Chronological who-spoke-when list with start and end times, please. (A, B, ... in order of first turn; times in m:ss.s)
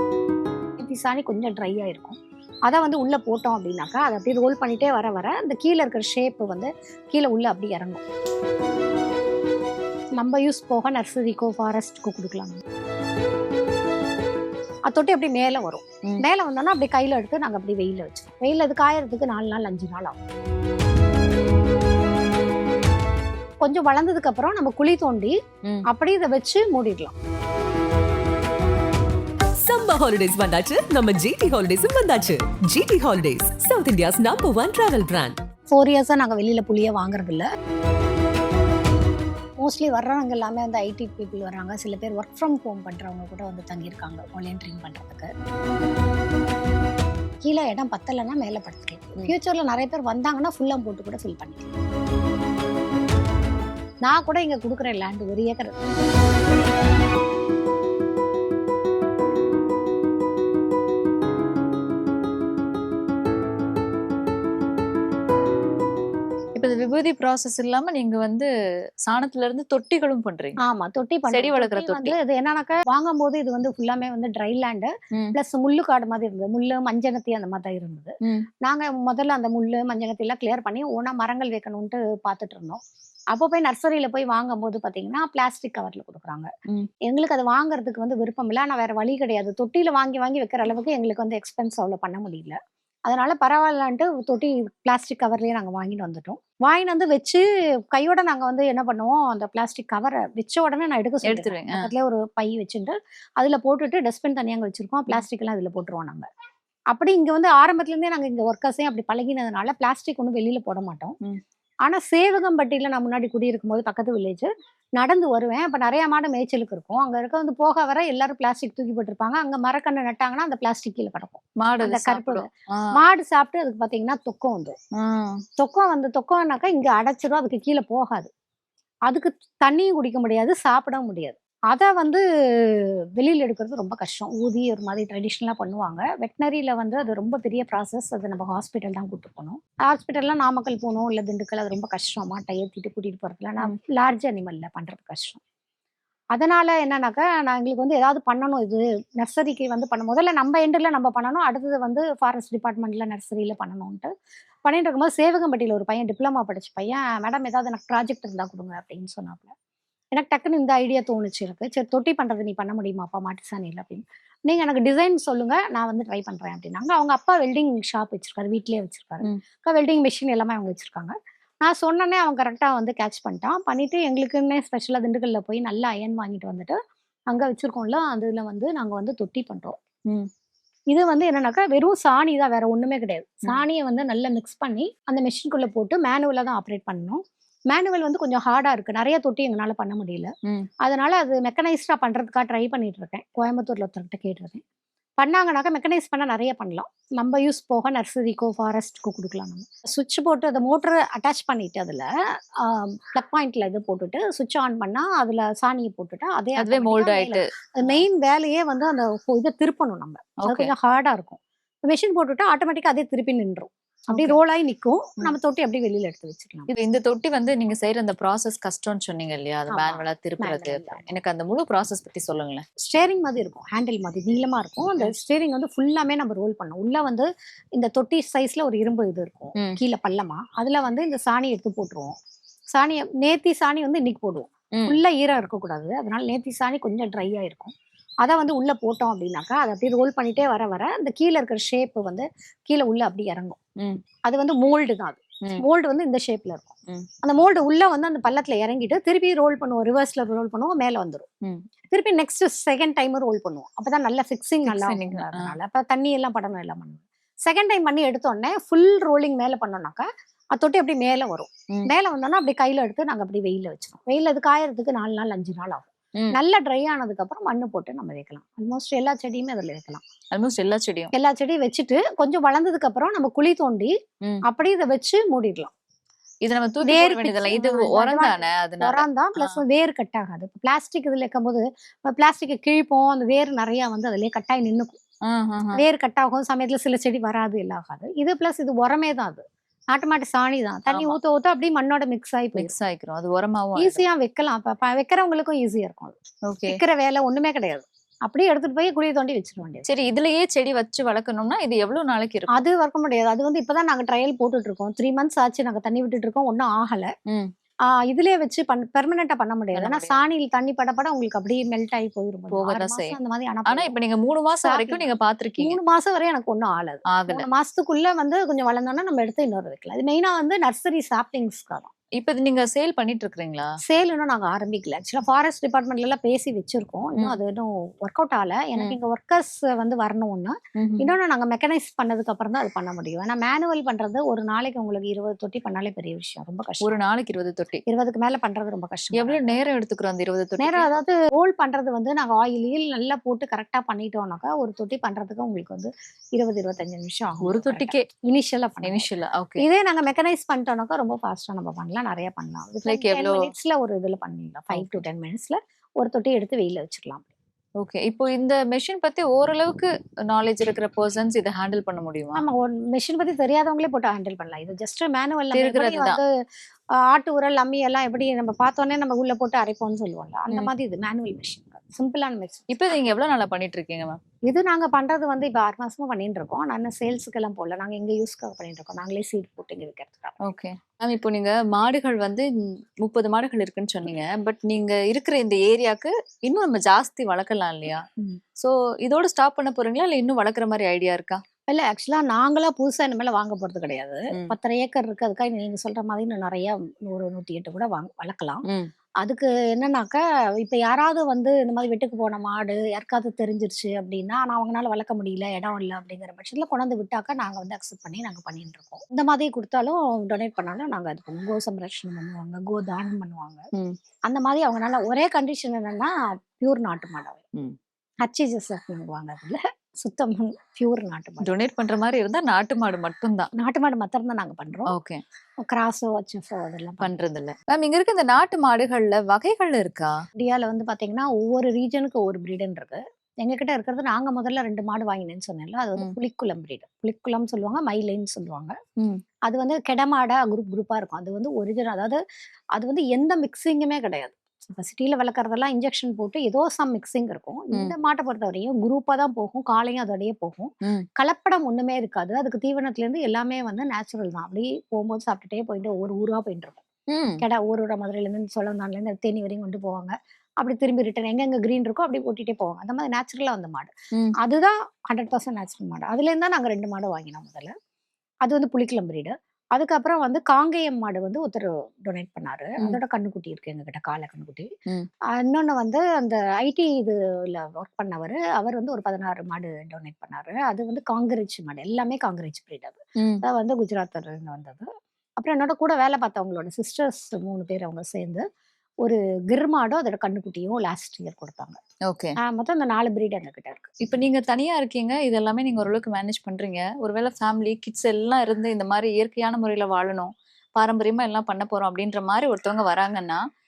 0:00.8-0:02.2 A
0:02.7-0:08.0 A
0:10.2-0:12.6 A
0:14.9-0:20.2 A
0:23.6-0:25.4 A
0:25.9-0:27.1 A
0:29.5-0:35.4 B
0:35.7-0:37.5 A
0:39.6-0:45.3 A
0:47.4-0:51.7 A
0:54.0-0:55.9 A
1:06.5-1:08.5 C
1:09.0-1:10.6 C
1:10.6-1:22.8 A
1:11.3-1:12.2 C
1:23.3-1:26.5 A
1:27.0-1:46.3 A
1:41.2-1:41.9 C
1:46.9-1:51.2 A
1:51.8-2:04.7 A
2:01.6-2:02.9 C
2:05.0-2:05.4 C
2:05.6-2:08.3 A
2:09.1-2:25.4 A
2:26.3-2:34.1 A
2:34.6-2:39.5 A
2:40.1-2:56.8 A
2:57.3-2:59.8 A
3:00.9-3:10.3 A
3:10.8-3:14.6 A
3:15.2-3:36.7 A
3:26.6-3:28.0 C
3:30.4-3:30.7 C
3:34.1-3:34.4 C
3:36.7-3:42.6 C
3:39.7-3:41.1 A
3:42.8-3:52.1 A
3:52.7-4:03.6 A
4:04.3-4:11.2 A
4:11.9-4:30.0 A
4:14.6-4:15.5 C
4:30.3-4:31.1 C
4:31.1-4:33.9 A
4:34.4-4:35.7 A
4:36.4-4:39.6 C
4:36.8-4:45.0 A
4:45.3-4:45.8 C
4:45.7-4:52.7 A
4:50.9-4:51.2 C
4:52.5-4:54.0 C
4:53.8-4:56.1 A
4:56.5-4:56.8 C
4:56.7-4:59.9 A
4:59.8-5:02.6 C
5:02.5-5:07.1 A
5:07.9-5:13.9 A
5:09.7-5:10.2 C
5:12.5-5:13.2 C
5:13.7-5:15.8 C
5:14.6-5:15.0 A
5:15.6-5:21.9 A
5:17.1-5:17.4 C
5:22.2-5:23.7 C
5:23.8-5:37.0 A
5:30.8-5:31.2 C
5:36.8-5:37.8 C
5:37.8-5:39.6 A
5:39.1-5:40.9 C
5:40.6-5:57.3 A
5:47.4-5:48.0 C
5:48.8-5:49.6 C
5:52.8-5:53.5 C
5:54.7-5:55.0 C
5:57.8-6:02.4 C
6:02.3-6:06.3 A
6:05.5-6:06.2 C
6:07.0-6:12.7 A
6:12.7-6:14.2 C
6:14.4-6:20.4 A
6:20.4-6:28.0 C
6:28.6-6:31.4 C
6:31.7-6:38.6 A
6:39.2-6:53.7 A
6:54.3-6:57.4 A
6:58.2-7:01.6 A
7:01.4-7:03.5 C
7:03.5-7:04.9 A
7:04.9-7:05.2 C
7:05.6-7:07.1 A
7:07.0-7:10.1 C
7:10.4-7:18.8 A
7:19.5-7:22.2 A
7:22.7-7:36.8 A
7:37.1-7:37.4 C
7:37.4-7:47.7 A
7:48.4-7:54.7 A
7:55.3-8:08.4 A
8:03.2-8:03.4 C
8:09.0-8:11.8 A
8:12.1-8:12.4 C
8:12.4-8:13.9 A
8:14.0-8:23.4 C